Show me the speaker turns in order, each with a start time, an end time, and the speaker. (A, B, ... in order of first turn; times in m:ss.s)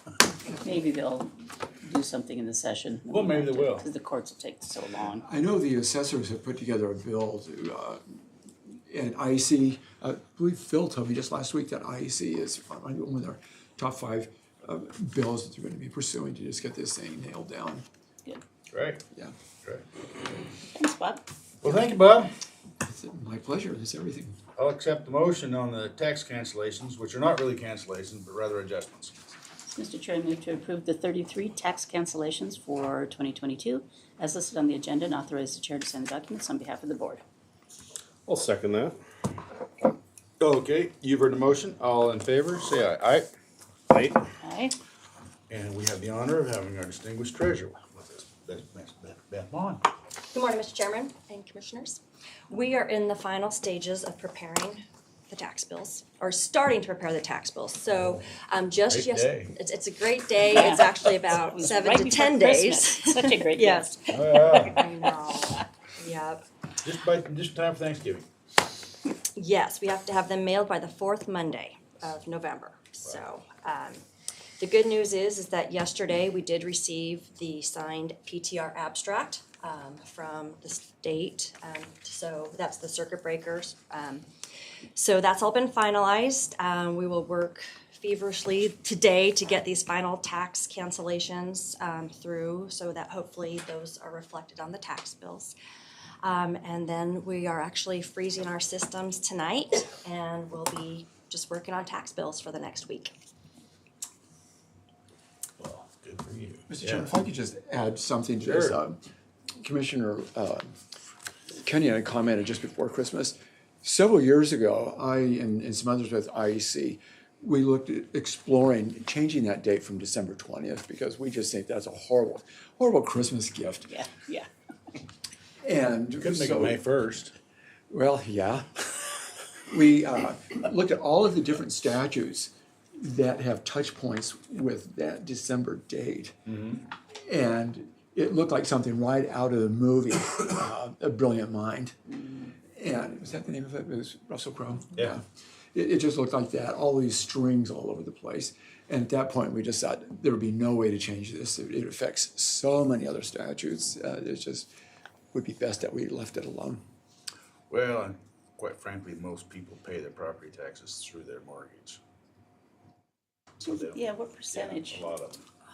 0:00.5-0:05.2 A
0:03.1-0:03.9 B
0:05.2-0:17.8 C
0:18.7-0:19.0 B
0:20.8-0:21.2 A
0:21.6-0:22.3 B
0:22.8-0:24.4 C
0:24.6-0:29.4 B
0:29.7-0:37.2 A
0:38.3-0:38.9 B
0:40.4-0:43.3 B
0:43.9-0:44.2 B
0:44.4-0:44.8 A
0:45.5-0:49.9 B
0:50.3-1:06.4 D
0:58.9-0:59.5 B
1:00.5-1:05.6 A
1:04.1-1:04.8 B
1:06.8-1:08.3 B
1:09.4-1:14.0 D
1:14.6-1:24.3 D
1:24.9-1:35.5 D
1:36.2-1:43.1 D
1:45.6-1:47.1 B
1:46.7-1:49.0 C
1:48.4-1:48.8 B
1:49.6-1:50.7 C
1:51.6-2:03.9 C
2:03.9-2:04.5 A
2:05.6-2:06.8 C
2:06.2-2:07.4 B
2:07.9-2:16.3 C
2:16.5-2:16.8 B
2:17.2-2:22.0 C
2:22.8-2:25.2 C
2:25.7-2:34.7 C
2:35.3-2:36.8 C
2:37.7-2:42.0 B
2:43.6-2:45.4 B
2:43.6-2:45.1 A